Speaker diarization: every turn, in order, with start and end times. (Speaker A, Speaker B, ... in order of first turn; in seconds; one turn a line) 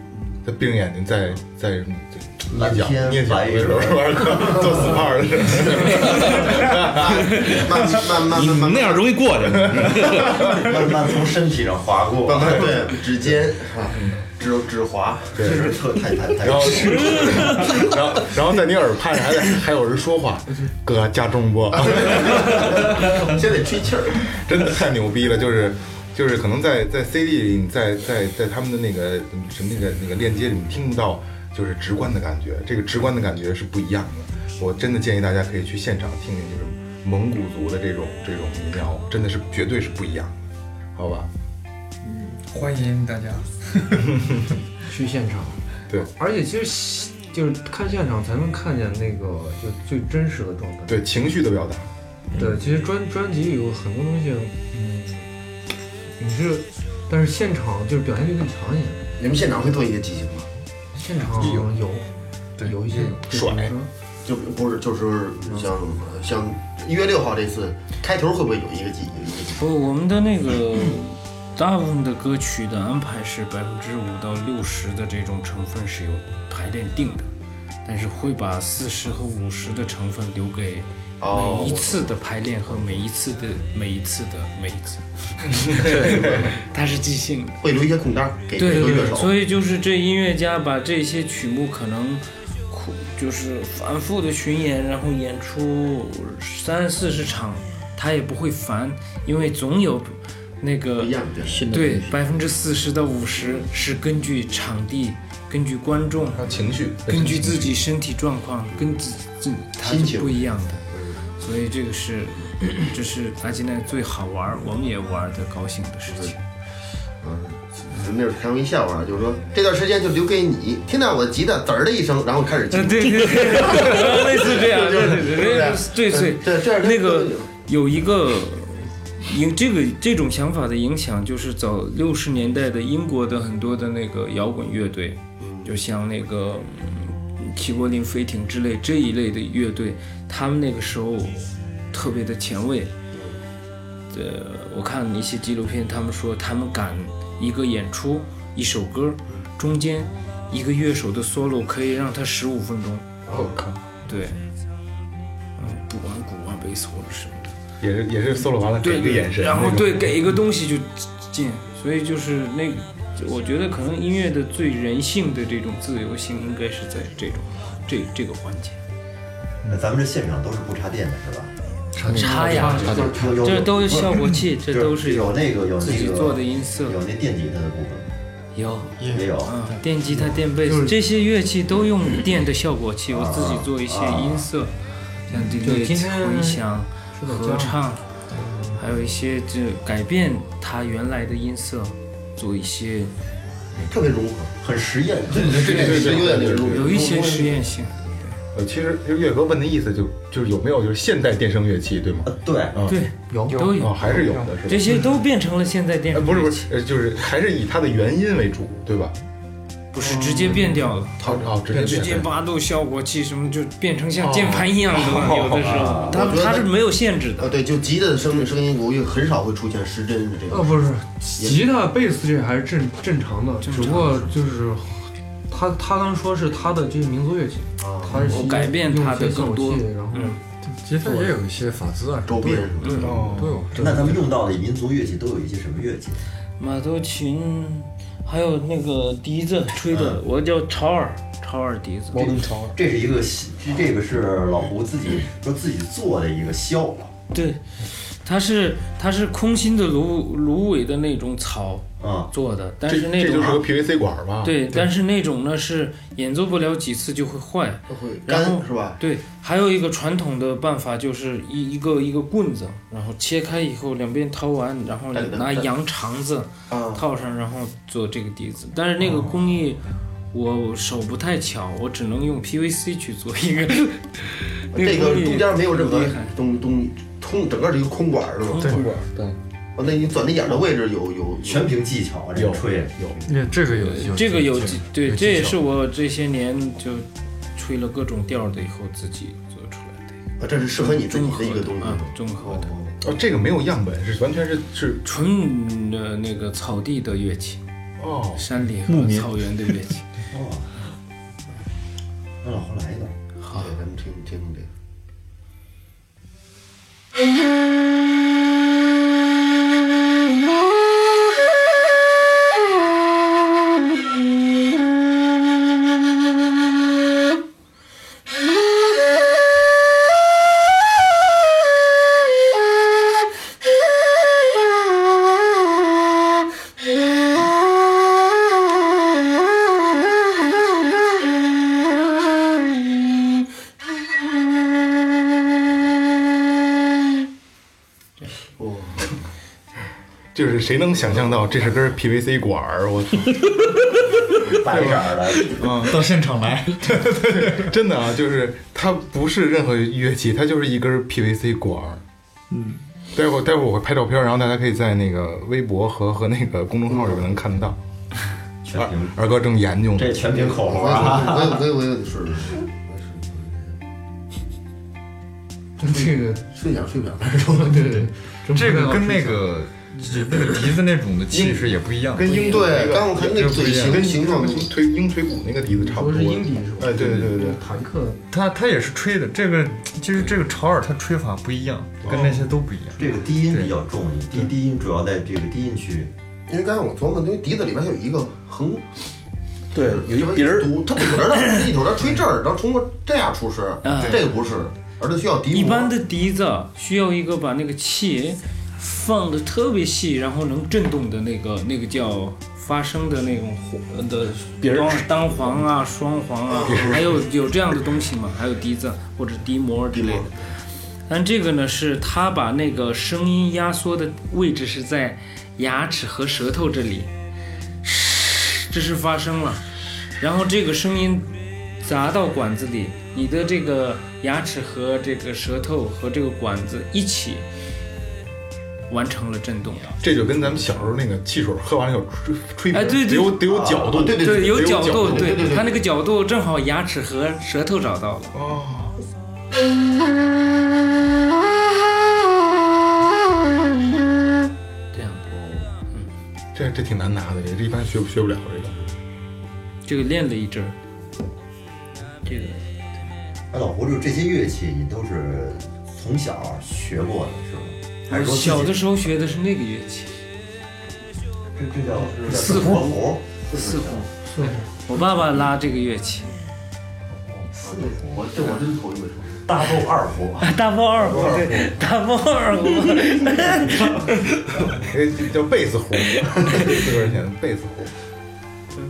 Speaker A: 0.4-7.3
Speaker B: 2.5-5.0
Speaker C: 6.0-10.7
Speaker D: 7.0-9.1
Speaker A: 9.7-10.6
Speaker B: 10.3-12.9
Speaker D: 12.3-15.8
Speaker A: 12.4-12.7
Speaker A: 15.3-15.7
Speaker B: 15.4-17.3
Speaker A: 16.4-23.2
Speaker D: 17.4-17.9
Speaker D: 21.8-24.3
Speaker A: 24.2-40.4
Speaker A: 40.9-41.3
Speaker E: 42.0-44.2
Speaker F: 44.9-51.0
Speaker A: 50.9-51.9
Speaker E: 52.3-52.7
Speaker F: 52.3-55.3
Speaker F: 56.2-59.0
Speaker D: 59.2-60.5
Speaker F: 60.9-63.9
Speaker E: 61.3-61.7
Speaker E: 62.6-63.2
Speaker A: 63.3-63.7
Speaker D: 64.2-69.6
Speaker G: 69.6-77.3
Speaker G: 77.8-87.6
Speaker D: 81.2-83.1
Speaker A: 85.5-86.5
Speaker D: 87.6-89.3
Speaker G: 88.5-101.1
Speaker D: 101.0-101.6
Speaker C: 101.4-102.2
Speaker G: 101.7-106.4
Speaker A: 106.3-107.8
Speaker G: 107.1-110.8
Speaker D: 108.7-109.0
Speaker D: 109.8-111.2
Speaker G: 111.4-116.4
Speaker D: 116.1-116.3
Speaker D: 117.2-127.5
Speaker G: 122.7-142.9
Speaker D: 135.4-135.7
Speaker D: 143.1-143.4
Speaker G: 144.1-153.2
Speaker D: 153.2-153.6
Speaker A: 153.3-153.8
Speaker G: 154.1-154.4
Speaker G: 155.6-157.5
Speaker A: 157.8-160.1
Speaker G: 158.8-168.8
Speaker B: 169.7-171.5
Speaker E: 171.9-173.1
Speaker F: 172.0-173.3
Speaker G: 172.1-176.9
Speaker D: 172.8-173.3
Speaker B: 173.0-178.1
Speaker G: 178.5-184.7
Speaker B: 179.1-179.6
Speaker F: 180.1-181.0
Speaker B: 183.1-184.5
Speaker G: 185.3-188.0
Speaker F: 185.6-186.6
Speaker F: 187.1-187.8
Speaker F: 188.4-188.7
Speaker G: 188.8-193.1
Speaker D: 193.8-194.5
Speaker B: 194.6-196.3
Speaker D: 195.3-197.7
Speaker G: 195.5-198.3
Speaker A: 195.6-196.9
Speaker A: 198.5-202.9
Speaker B: 202.2-202.8
Speaker G: 202.9-203.9
Speaker F: 203.3-203.8
Speaker A: 203.8-205.0
Speaker G: 204.7-206.7
Speaker A: 206.1-209.1
Speaker G: 209.9-217.5
Speaker F: 210.0-210.8
Speaker A: 211.2-212.3
Speaker A: 214.2-215.3
Speaker B: 215.3-216.2
Speaker D: 216.1-216.7
Speaker D: 217.4-220.9
Speaker F: 220.5-230.4
Speaker D: 221.4-221.7
Speaker G: 223.6-224.3
Speaker D: 227.8-228.3
Speaker G: 228.3-230.4
Speaker E: 230.6-234.1
Speaker F: 231.0-231.4
Speaker D: 232.2-233.3
Speaker G: 232.8-233.1
Speaker A: 233.0-233.7
Speaker F: 233.7-234.1
Speaker B: 233.7-236.2
Speaker G: 236.6-242.3
Speaker B: 239.9-240.2
Speaker B: 242.1-247.1
Speaker G: 247.3-253.7
Speaker B: 252.0-252.3
Speaker A: 252.9-254.6
Speaker G: 254.4-269.8
Speaker D: 257.9-259.0
Speaker D: 265.1-265.7
Speaker D: 266.7-267.0
Speaker A: 269.0-269.3
Speaker G: 270.3-276.3
Speaker D: 274.7-278.8
Speaker G: 278.4-278.9
Speaker E: 278.6-278.9
Speaker C: 278.6-279.3
Speaker D: 279.8-281.7
Speaker B: 281.4-283.2
Speaker A: 282.4-283.2
Speaker E: 283.3-285.6
Speaker G: 284.0-290.2
Speaker D: 290.4-292.9
Speaker G: 290.7-292.7
Speaker A: 293.0-295.0
Speaker G: 295.0-297.6
Speaker A: 298.0-298.4
Speaker G: 298.4-300.1
Speaker C: 298.9-299.5
Speaker B: 300.3-300.7
Speaker B: 302.4-303.1
Speaker G: 303.4-303.7
Speaker D: 303.5-304.7
Speaker D: 338.6-339.1
Speaker A: 340.3-343.4
Speaker D: 341.0-341.7
Speaker B: 344.4-345.7
Speaker A: 344.7-346.1
Speaker E: 345.5-347.7
Speaker A: 346.8-352.0
Speaker A: 353.1-357.8
Speaker D: 356.9-357.3
Speaker B: 358.6-359.2
Speaker A: 358.7-360.2
Speaker B: 359.9-361.6
Speaker D: 360.3-363.8
Speaker F: 365.8-366.4
Speaker D: 365.9-368.0
Speaker F: 367.3-369.6
Speaker E: 368.5-374.1
Speaker A: 372.1-377.6
Speaker D: 372.2-374.7
Speaker F: 375.7-378.2
Speaker E: 378.3-383.8
Speaker A: 382.0-382.5
Speaker B: 382.9-386.1
Speaker D: 386.5-388.9
Speaker C: 389.7-391.2
Speaker D: 389.7-395.9
Speaker G: 393.8-394.3
Speaker G: 395.5-410.3
Speaker C: 404.4-405.6
Speaker D: 406.5-407.2
Speaker A: 406.6-407.2
Speaker D: 409.9-410.4
Speaker G: 411.1-417.1
Speaker G: 417.8-427.4
Speaker G: 428.9-430.0
Speaker A: 430.0-435.5
Speaker G: 432.7-433.5
Speaker D: 433.5-435.8
Speaker G: 434.2-438.3
Speaker A: 438.3-438.9
Speaker G: 444.9-446.1
Speaker A: 446.5-448.8
Speaker G: 449.8-450.8
Speaker G: 452.2-452.8
Speaker B: 453.5-458.9
Speaker G: 458.1-460.2
Speaker B: 461.5-464.0
Speaker G: 462.2-463.0
Speaker G: 463.5-466.3
Speaker D: 463.5-463.8
Speaker F: 464.3-464.6
Speaker B: 467.1-468.4
Speaker D: 467.6-469.5
Speaker B: 469.4-471.7
Speaker G: 470.4-474.6
Speaker B: 473.3-474.7
Speaker A: 474.8-477.9